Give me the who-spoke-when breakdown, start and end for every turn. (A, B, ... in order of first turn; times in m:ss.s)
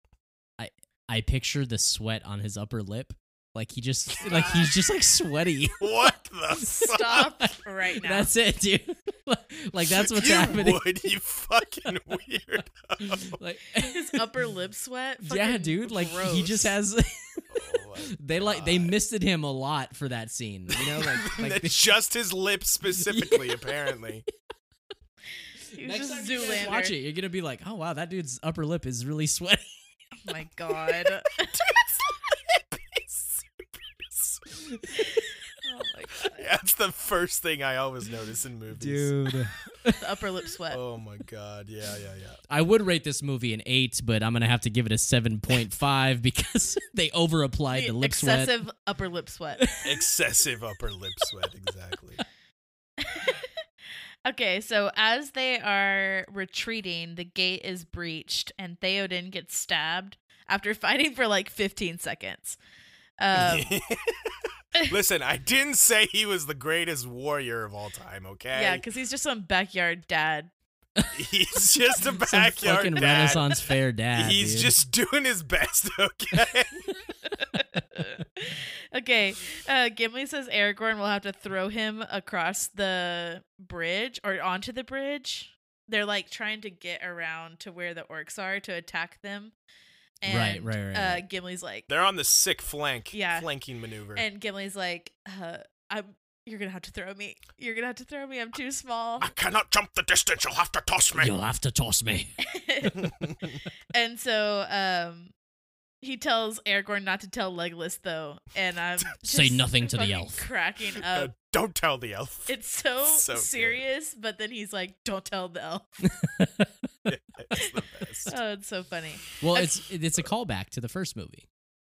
0:00.6-0:07.5 A
0:04.3-0:04.6 B
0:04.3-0:04.6 C
0:05.8-0:07.2 B
0:06.8-0:08.3 C
0:08.0-0:11.1 A
0:09.9-0:13.4 B
0:13.0-0:14.2 A
0:13.8-0:16.7 C
0:15.2-0:21.8 A
0:17.5-0:18.9 B
0:20.7-0:24.2 B
0:23.0-0:23.8 A
0:25.7-0:26.9 C
0:25.7-0:29.7 A
0:30.2-0:31.6 C
0:31.5-0:34.4 B
0:35.0-0:36.5 C
0:36.3-0:39.4 B
0:38.7-0:40.0 A
0:40.0-0:40.8 C
0:40.7-0:42.4 B
0:42.5-0:48.5 A
0:47.7-0:49.8 C
0:49.8-0:52.2 B
0:53.0-0:53.5 C
0:54.2-1:02.6 C
1:03.2-1:03.7 C
1:03.3-1:08.8 B
1:08.5-1:10.5 C
1:11.0-1:11.2 A
1:11.1-1:16.9 B
1:12.1-1:14.7 A
1:17.4-1:29.5 C
1:30.2-1:31.9 C
1:30.3-1:31.2 A
1:31.9-1:34.2 B
1:33.1-1:33.5 C
1:34.1-1:39.3 C
1:39.2-1:41.3 B
1:41.2-1:42.4 A
1:42.4-1:43.1 C
1:43.0-1:43.5 B
1:43.9-1:45.3 C
1:46.0-1:51.3 C
1:49.2-1:50.4 A
1:51.0-1:53.8 B
1:52.5-1:56.0 C
1:56.2-1:56.7 A
1:57.1-1:58.3 B
1:58.3-1:59.8 C
1:59.4-2:01.4 A